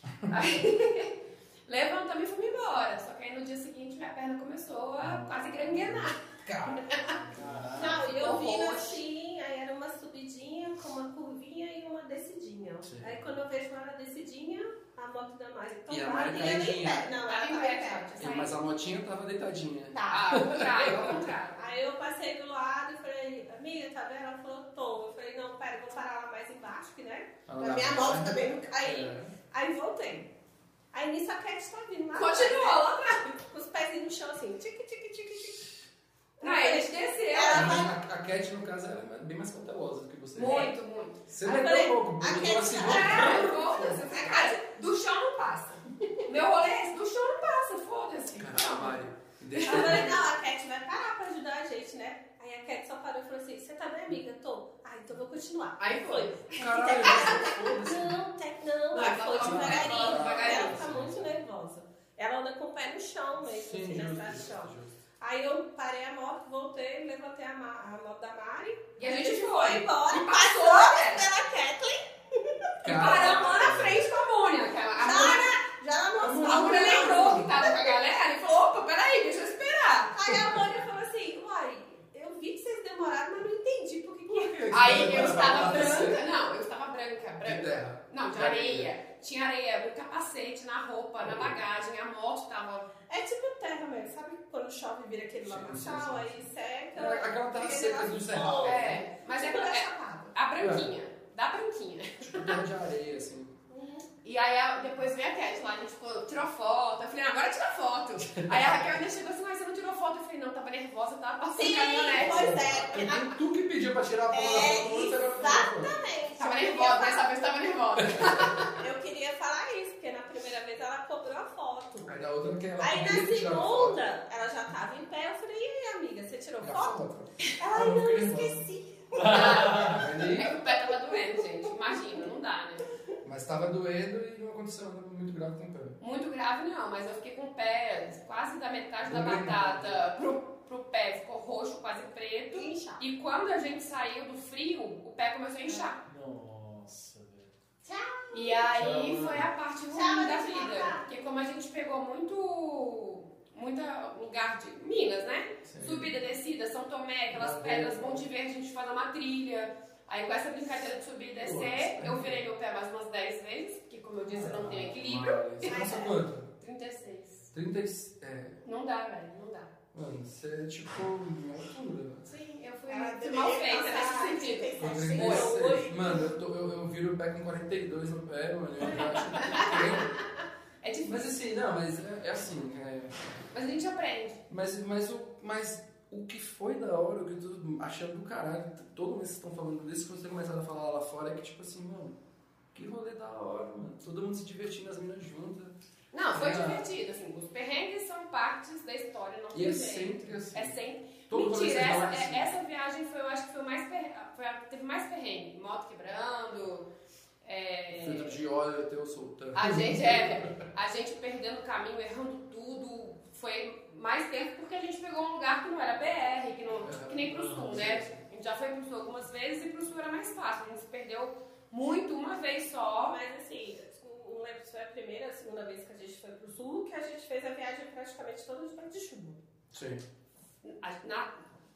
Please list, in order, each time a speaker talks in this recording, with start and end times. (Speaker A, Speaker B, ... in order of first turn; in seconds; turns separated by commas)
Speaker A: 0.2-7.2, Speaker B: 6.0-8.1, Speaker C: 7.3-7.8, Speaker D: 7.8-18.1, Speaker A: 7.8-9.0, Speaker B: 12.8-13.2, Speaker B: 15.9-17.1, Speaker A: 17.3-18.6, Speaker B: 18.2-21.3, Speaker D: 19.9-20.5, Speaker A: 20.1-21.6, Speaker D: 21.6-30.3, Speaker B: 27.5-29.3, Speaker D: 30.9-35.8, Speaker A: 32.1-33.2, Speaker D: 36.4-37.9, Speaker A: 36.4-37.8, Speaker B: 37.5-40.7, Speaker A: 40.3-41.2, Speaker B: 41.3-43.9, Speaker D: 41.4-44.6, Speaker A: 42.8-49.0, Speaker B: 48.4-50.2, Speaker A: 49.5-50.1, Speaker D: 49.6-74.0, Speaker A: 55.8-57.5, Speaker B: 56.5-58.2, Speaker A: 58.9-60.8, Speaker B: 59.3-61.3, Speaker B: 63.5-64.9, Speaker A: 69.0-71.2, Speaker B: 72.8-74.0, Speaker A: 72.9-75.6, Speaker D: 75.0-78.0, Speaker B: 76.2-77.5, Speaker A: 76.4-80.1, Speaker D: 80.1-84.6, Speaker B: 84.3-86.2, Speaker A: 84.7-92.9, Speaker D: 85.5-86.1, Speaker B: 87.4-88.9, Speaker B: 91.2-91.6, Speaker D: 93.1-100.3, Speaker B: 95.4-96.3, Speaker B: 96.9-99.0, Speaker A: 98.6-102.6, Speaker B: 100.6-100.9, Speaker B: 102.2-103.5, Speaker D: 103.7-104.0, Speaker A: 104.2-112.6, Speaker B: 108.4-109.0, Speaker D: 111.5-113.3, Speaker B: 112.2-116.0, Speaker D: 114.3-117.2, Speaker A: 116.4-118.8, Speaker B: 118.0-118.6, Speaker D: 118.7-122.2, Speaker B: 122.0-124.0, Speaker D: 122.8-127.0, Speaker B: 126.6-128.6, Speaker D: 127.6-130.1, Speaker C: 129.1-130.0, Speaker A: 129.2-132.8, Speaker B: 129.8-130.6, Speaker B: 133.2-136.0, Speaker A: 136.0-146.0, Speaker B: 139.0-140.0, Speaker D: 142.5-143.0, Speaker C: 146.0-147.5, Speaker D: 147.8-148.7, Speaker A: 148.3-165.8, Speaker C: 148.8-149.5, Speaker D: 149.9-151.0, Speaker B: 155.6-156.1, Speaker B: 157.3-158.2, Speaker B: 161.4-162.4, Speaker B: 164.3-166.5, Speaker D: 165.6-166.2, Speaker A: 166.6-167.5, Speaker B: 167.5-168.6, Speaker A: 168.6-169.7, Speaker B: 169.9-172.3, Speaker A: 172.3-175.6, Speaker D: 172.9-176.3, Speaker B: 174.8-180.2, Speaker A: 179.3-181.2, Speaker B: 181.0-183.1, Speaker A: 183.5-184.4, Speaker B: 184.5-192.2, Speaker B: 192.7-195.7, Speaker A: 196.1-206.8, Speaker B: 196.3-196.9, Speaker B: 199.5-200.7, Speaker B: 201.3-202.5, Speaker A: 207.4-208.4, Speaker B: 207.9-210.6, Speaker A: 209.5-223.2, Speaker B: 216.8-218.1, Speaker C: 217.3-217.8, Speaker D: 223.0-229.4, Speaker B: 229.7-230.0, Speaker A: 230.6-231.4